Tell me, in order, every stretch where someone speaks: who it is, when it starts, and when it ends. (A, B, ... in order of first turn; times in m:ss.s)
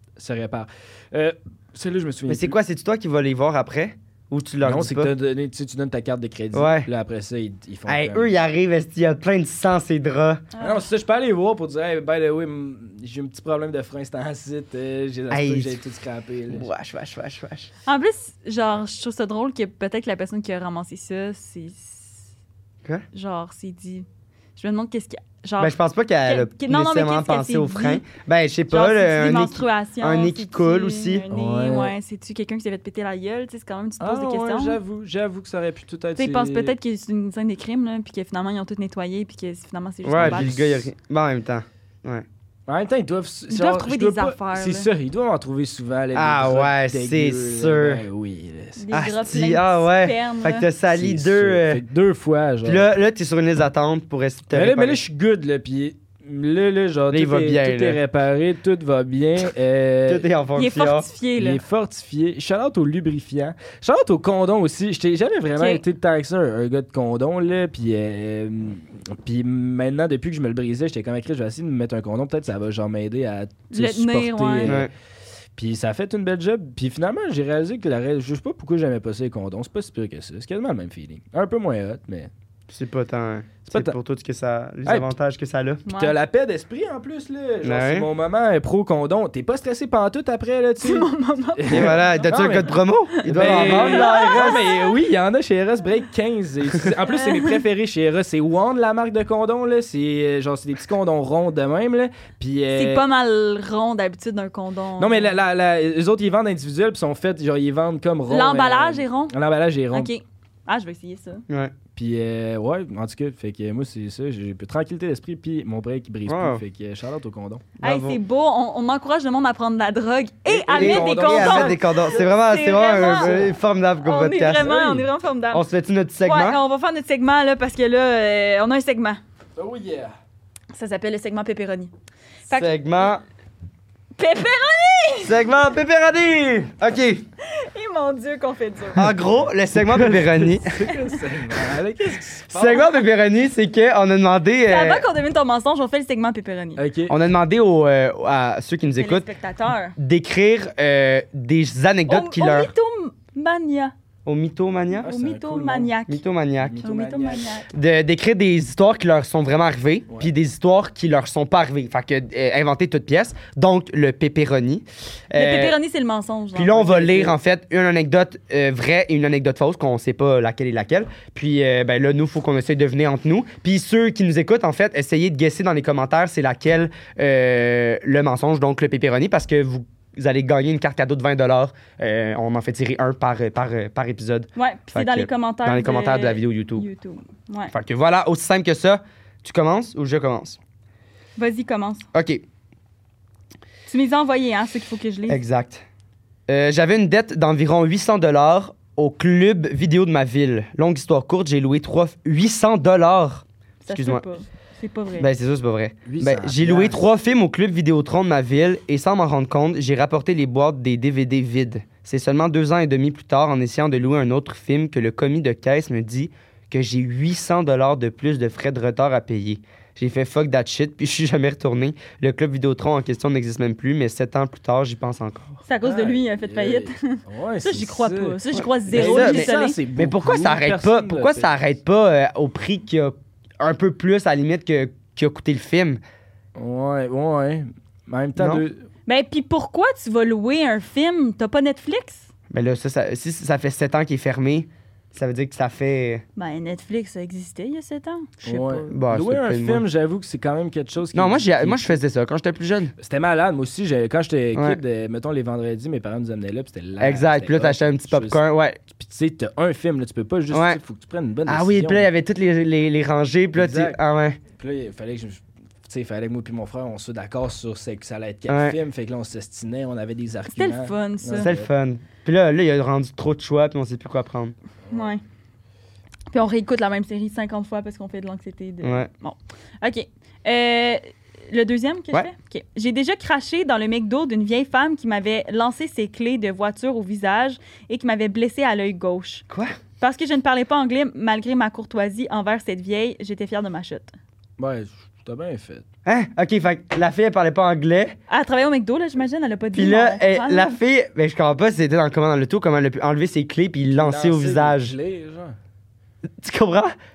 0:00.2-0:02.6 A
0:02.3-0:05.1 B
0:04.6-0:08.3 A
0:06.5-0:06.9 B
0:07.9-0:10.4 B
0:10.5-0:10.8 C
0:10.6-0:16.7 A
0:15.3-0:15.8 B
0:16.5-0:17.7 B
0:17.8-0:22.3 C
0:23.1-0:28.0 C
0:25.6-0:31.2 B
0:28.7-0:34.8 C
0:31.3-0:31.9 A
0:34.0-0:36.8 A
0:36.2-0:40.5 C
0:40.0-0:42.2 B
0:40.1-0:40.9 A
0:42.7-0:48.9 A
0:43.5-0:44.9 C
0:46.1-0:48.0 B
0:48.8-0:50.7 C
0:48.9-0:51.8 B
0:50.9-0:52.9 A
0:52.6-0:55.0 B
0:54.5-1:00.2 A
0:57.1-0:58.0 B
1:00.1-1:01.0 B
1:00.6-1:01.6 C
1:01.4-1:14.9 A
1:05.6-1:05.8 C
1:13.7-1:14.8 C
1:15.6-1:22.3 A
1:22.7-1:25.8 B
1:23.7-1:23.9 A
1:24.8-1:25.1 A
1:25.8-1:26.2 C
1:26.0-1:43.0 A
1:27.6-1:28.1 B
1:30.8-1:35.0 C
1:31.7-1:34.6 B
1:42.7-1:45.3 C
1:45.0-1:50.1 A
1:48.3-1:49.3 C
1:49.9-1:51.4 C
1:51.5-1:51.7 B
1:52.0-1:57.7 A
1:56.3-1:56.6 B
1:57.8-1:58.2 B
1:57.8-2:05.6 C
2:00.5-2:02.3 A
2:00.7-2:04.7 B
2:03.1-2:03.4 A
2:04.6-2:05.1 A
2:05.5-2:06.6 B
2:06.2-2:09.2 C
2:09.6-2:10.1 A
2:10.7-2:11.9 C
2:12.5-2:13.1 C
2:12.5-2:13.2 B
2:14.2-2:15.4 C
2:15.2-2:17.2 B
2:17.4-2:19.1 C
2:18.9-2:20.8 B
2:19.7-2:22.9 A
2:22.5-2:25.1 B
2:24.6-2:26.8 C
2:26.8-2:27.2 A
2:27.1-2:29.2 B
2:29.0-2:30.0 C
2:30.0-2:32.7 B
2:32.1-2:33.9 C
2:34.2-2:35.1 B
2:35.0-2:35.9 A
2:35.0-2:36.2 C
2:36.1-2:36.8 B
2:36.6-2:37.5 A
2:36.8-2:37.7 C
2:37.7-2:45.7 B
2:45.3-2:47.3 C
2:46.5-3:06.8 B
3:04.6-3:07.7 C
3:07.7-3:10.6 B
3:11.4-3:12.0 C
3:12.1-3:12.4 B
3:13.9-3:15.4 C
3:15.3-3:15.8 B
3:16.5-3:24.2 B
3:23.8-3:25.3 C
3:25.2-3:45.6 B
3:26.0-3:27.0 A
3:45.6-3:49.8 C
3:45.8-3:51.5 A
3:48.5-3:56.0 B
3:56.6-3:58.8 A
3:58.4-3:58.6 B
3:59.0-4:02.3 C
4:02.5-4:06.2 B
4:06.4-4:08.9 C
4:08.4-4:12.0 A
4:08.9-4:09.8 B
4:11.1-4:12.9 B
4:13.0-4:18.4 A
4:17.0-4:18.8 B
4:18.9-4:22.1 A
4:20.5-4:20.8 B
4:21.5-4:24.4 B
4:23.5-4:24.0 A
4:24.6-4:31.7 A
4:28.5-4:28.8 B
4:30.5-4:31.5 C
4:31.4-4:34.5 B
4:34.9-4:35.1 A
4:34.9-4:35.2 C
4:36.3-4:49.4 C
4:38.8-4:39.1 B
4:49.5-4:49.8 B
4:50.0-4:54.1 C
4:54.6-4:55.8 A
4:56.0-4:58.1 B
4:58.3-5:00.7 C
4:59.7-5:04.9 B
5:03.9-5:05.5 A
5:06.4-5:06.9 B